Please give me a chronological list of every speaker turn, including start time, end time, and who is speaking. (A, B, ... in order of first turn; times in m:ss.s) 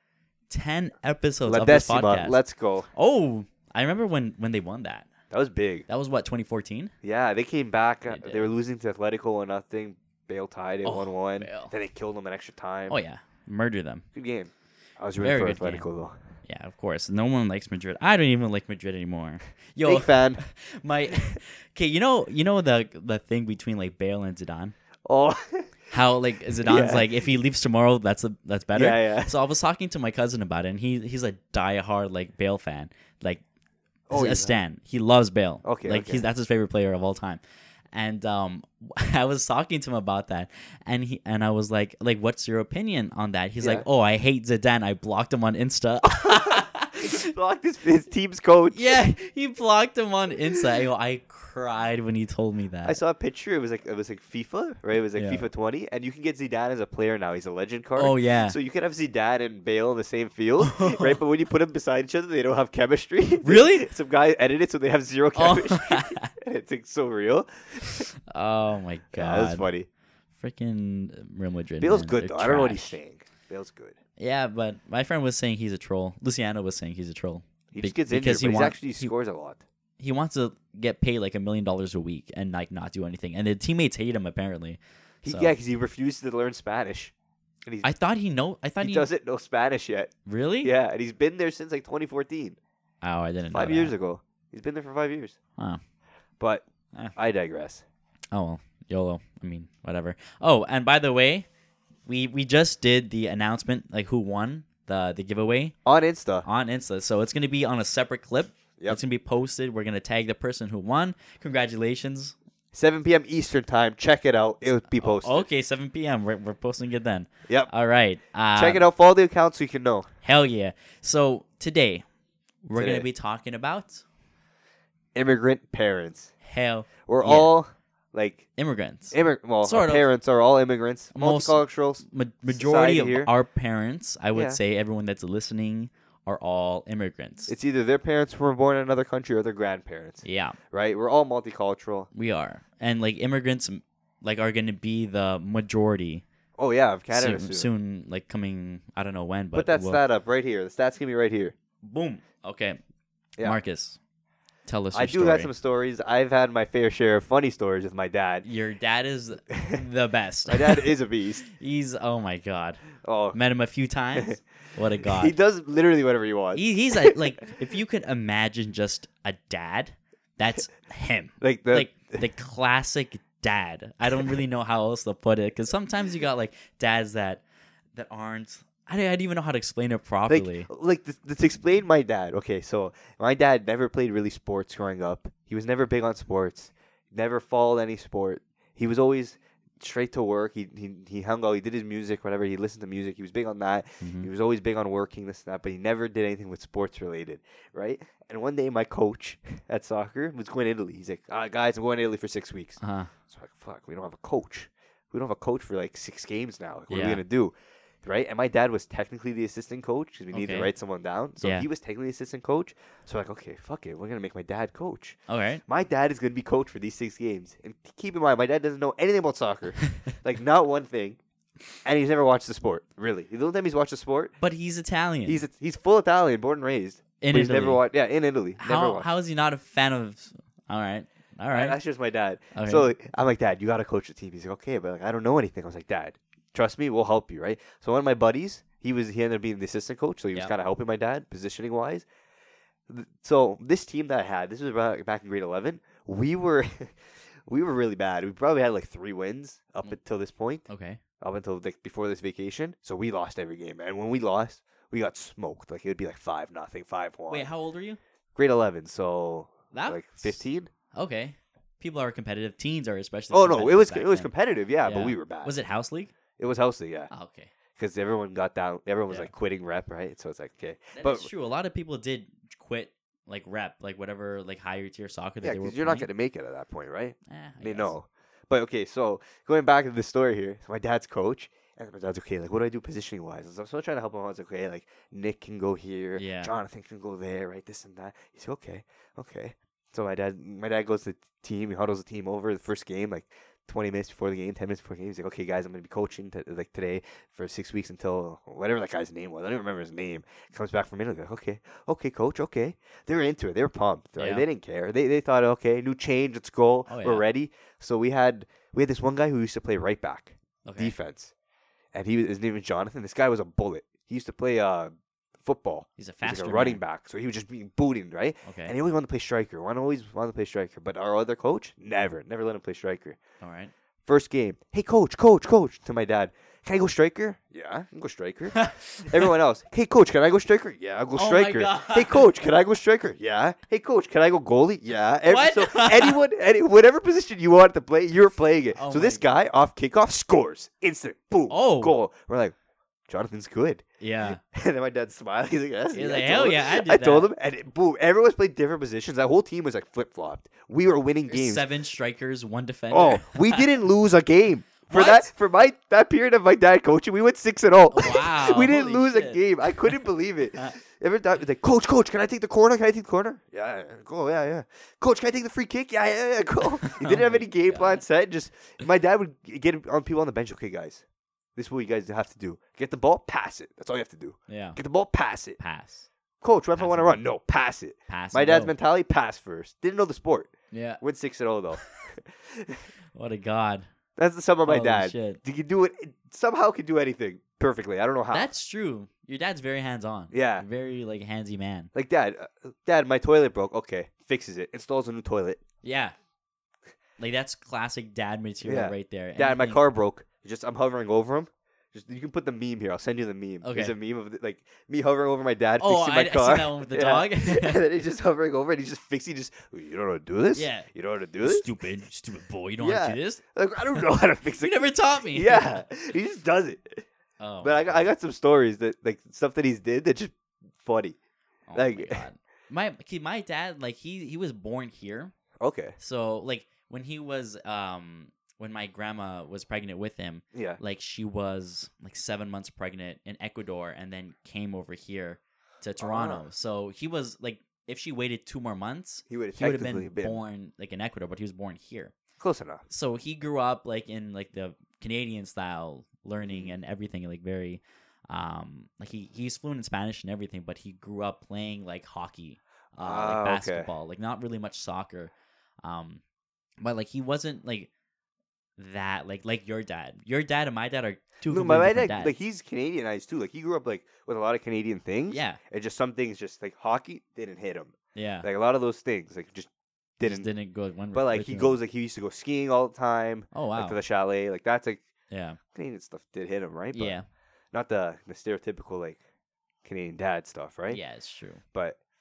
0:00.5-0:02.4 A
0:01.5-0:02.9 B
0:02.9-0:05.1 A
0:05.3-0:05.9 B
0:05.9-0:06.9 A
0:07.0-0:13.0 B
0:08.1-0:08.5 A
0:10.8-0:11.7 A
0:12.9-0:14.0 A
0:14.1-0:16.2 B
0:15.2-0:15.9 A
0:16.4-0:24.8 A
0:19.8-0:20.4 B
0:25.1-0:25.7 B
0:25.9-0:33.4 A
0:26.6-0:27.2 B
0:28.7-0:29.4 B
0:34.1-0:34.6 B
0:34.1-0:37.4 A
0:35.6-0:36.2 B
0:37.9-0:47.2 A
0:43.6-0:43.9 B
0:46.1-0:49.0 B
0:48.7-0:53.0 A
0:52.8-1:08.1 B
0:55.2-0:55.5 A
0:58.0-0:58.6 A
1:00.6-1:01.2 A
1:03.4-1:03.9 A
1:05.4-1:06.3 A
1:07.8-1:09.7 A
1:09.1-1:09.9 B
1:10.4-1:13.0 A
1:11.8-1:14.0 B
1:14.2-1:19.1 A
1:17.7-1:19.6 B
1:20.0-1:25.5 A
1:25.2-1:27.1 B
1:27.8-1:29.1 A
1:28.8-1:32.6 B
1:30.3-1:30.7 A
1:33.0-1:33.9 A
1:33.5-1:35.4 B
1:37.2-1:37.8 B
1:38.3-1:41.5 A
1:42.1-1:45.7 A
1:45.9-1:46.4 B
1:46.4-1:52.4 A
1:52.7-1:55.5 B
1:55.0-1:58.8 A
1:58.6-2:00.1 B
2:00.2-2:02.0 A
2:02.6-2:04.0 A
2:02.8-2:03.1 B
2:05.2-2:06.3 B
2:06.4-2:07.5 A
2:07.1-2:08.5 B
2:08.6-2:10.1 A
2:09.1-2:13.3 B
2:11.2-2:17.5 A
2:14.3-2:14.6 B
2:17.5-2:22.1 B
2:20.2-2:20.6 A
2:22.1-2:26.2 A
2:26.6-2:27.7 B
2:27.1-2:30.0 A
2:29.5-2:31.6 B
2:31.8-2:32.8 A
2:33.4-2:34.0 A
2:34.7-2:35.5 A
2:34.9-2:38.4 B
2:38.4-2:40.9 A
2:39.5-2:39.8 B
2:40.5-2:41.5 B
2:41.5-2:45.3 A
2:43.0-2:43.4 B
2:45.0-2:47.2 B
2:46.6-2:57.4 A
2:51.4-2:52.2 B
2:58.0-3:00.7 A
3:00.3-3:41.2 B
3:14.0-3:14.3 A
3:22.8-3:23.1 A
3:26.9-3:27.2 A
3:30.3-3:30.7 A
3:31.4-3:31.7 A
3:35.3-3:35.6 A
3:41.8-3:44.4 B
3:44.4-3:45.4 A
3:45.3-3:49.1 B
3:47.2-3:47.8 A
3:48.6-3:51.8 A
3:51.5-4:02.1 B
3:52.5-3:52.9 A
4:02.9-4:10.7 B
4:10.7-4:11.0 A
4:11.2-4:17.5 B
4:17.3-4:18.0 A
4:18.4-4:20.7 B
4:19.7-4:24.3 A
4:23.3-4:25.5 B
4:24.8-4:26.1 A
4:26.4-4:27.1 B
4:27.1-4:27.5 A
4:27.8-4:31.3 B
4:31.0-4:36.1 A
4:35.4-5:11.3 B
4:37.3-4:37.9 A
4:46.2-4:46.5 A
5:04.2-5:04.4 A
5:06.9-5:07.2 A
5:10.6-5:11.0 A
5:11.9-5:23.2 B
5:16.0-5:16.8 A
5:18.4-5:18.8 A
5:23.4-5:23.7 A
5:24.1-5:42.6 B
5:28.6-5:29.3 A
5:31.2-5:32.3 A
5:35.3-5:36.2 A
5:38.8-5:39.2 A
5:41.5-5:42.0 A
5:43.1-5:51.6 B
5:44.0-5:44.4 A
5:45.9-5:47.3 A
5:51.3-5:53.7 A
5:52.9-6:11.0 B
5:54.9-5:55.3 A
5:57.9-6:00.0 A
6:06.8-6:08.0 A
6:11.6-6:15.6 B
6:14.5-6:14.8 A
6:15.6-6:16.1 A
6:16.4-6:22.9 B
6:16.8-6:17.2 A
6:18.1-6:18.7 A
6:20.7-6:21.0 A
6:21.8-6:22.0 A
6:23.1-6:23.9 A
6:24.2-6:28.5 B
6:24.7-6:25.4 A
6:28.3-6:31.9 A
6:30.3-6:30.7 B
6:31.9-6:35.6 B
6:35.8-6:36.1 A
6:37.2-6:39.8 A
6:38.6-6:51.7 B
6:43.6-6:44.0 A
6:45.8-6:47.8 A
6:50.6-6:50.9 A
6:51.4-6:55.9 A
6:52.8-6:57.1 B
6:57.4-6:58.1 A
6:57.6-7:01.2 B
7:01.7-7:05.3 A
7:01.8-7:02.3 B
7:05.6-7:06.0 B
7:06.0-7:22.1 A
7:10.5-7:10.8 B
7:16.0-7:16.4 B
7:19.3-7:20.4 B
7:22.4-7:22.8 B
7:22.9-7:35.3 A
7:26.4-7:26.7 B
7:33.0-7:33.9 B
7:35.8-7:36.2 A
7:36.8-7:37.9 A
7:38.8-7:42.4 A
7:41.5-7:50.5 B
7:45.3-7:45.6 A
7:48.2-7:48.5 A
7:50.2-7:51.8 A
7:51.1-7:55.1 B
7:53.5-7:54.0 A
7:55.3-7:55.6 A
7:55.7-7:57.2 B
7:56.9-7:57.3 A
7:57.7-7:59.2 B
7:59.8-8:01.0 B
8:00.9-8:01.6 A
8:01.7-8:02.0 B